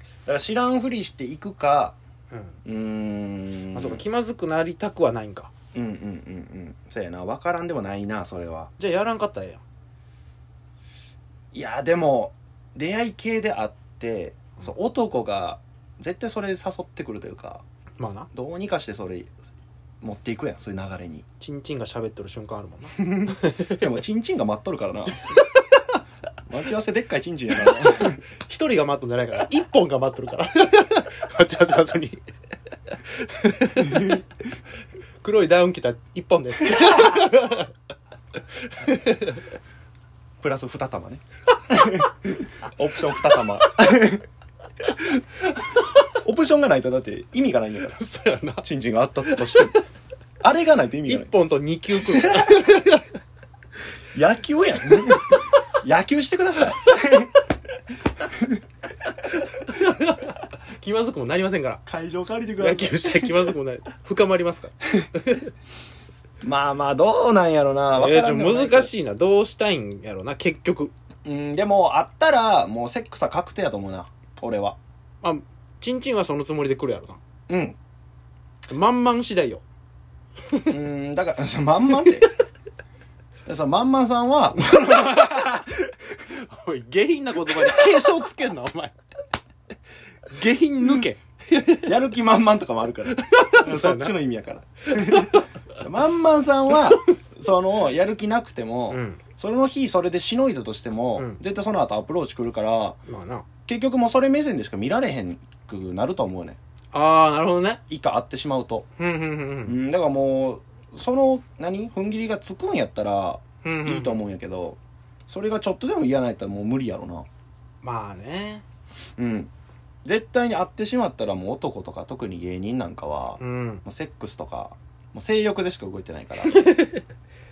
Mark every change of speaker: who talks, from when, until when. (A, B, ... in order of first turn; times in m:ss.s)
0:00.2-0:02.0 A
0:02.3-0:02.6 B
0:02.6-0:04.0 A
0:03.7-0:05.5 B
0:05.7-0:08.7 A
0:08.8-0:09.6 B
0:11.5-0:17.6 A
0:18.0-0:18.3 B
0:18.3-0:19.3 A
0:20.0-0:21.2 A
0:21.4-0:23.9 B
0:23.0-0:25.4 A
0:25.2-0:25.8 B
0:26.5-0:28.2 A
0:27.6-0:32.2 B
0:33.1-0:34.2 B
0:35.2-0:37.7 B
0:38.6-0:39.4 B
0:40.4-0:44.2 A
0:46.1-0:48.0 A
0:47.9-0:48.6 B
0:48.6-0:49.7 A
0:49.2-0:49.7 B
0:50.4-0:51.3 A
0:51.0-0:53.0 B
0:54.1-0:57.3 A
0:59.5-1:01.8 B
1:01.8-1:03.5 A
1:02.6-1:05.5 B
1:06.4-1:08.9 A
1:07.9-1:10.9 B
1:11.2-1:14.8 A
1:15.2-1:17.2 B
1:17.5-1:17.8 A
1:18.7-1:19.6 B
1:20.7-1:22.3 A
1:23.4-1:25.9 A
1:24.6-1:25.6 B
1:26.3-1:29.0 B
1:30.3-1:31.9 B
1:31.8-1:43.0 A
1:33.1-1:34.1 B
1:34.9-1:35.4 B
1:38.9-1:39.2 B
1:43.1-1:43.5 B
1:43.6-1:46.6 A
1:46.9-1:47.8 B
1:47.9-1:48.9 A
1:49.0-1:49.8 B
1:49.6-1:57.2 A
1:53.6-1:54.2 B
1:57.8-1:58.6 B
1:59.2-1:59.5 A
2:00.0-2:06.6 A
2:03.4-2:03.8 B
2:06.4-2:07.0 B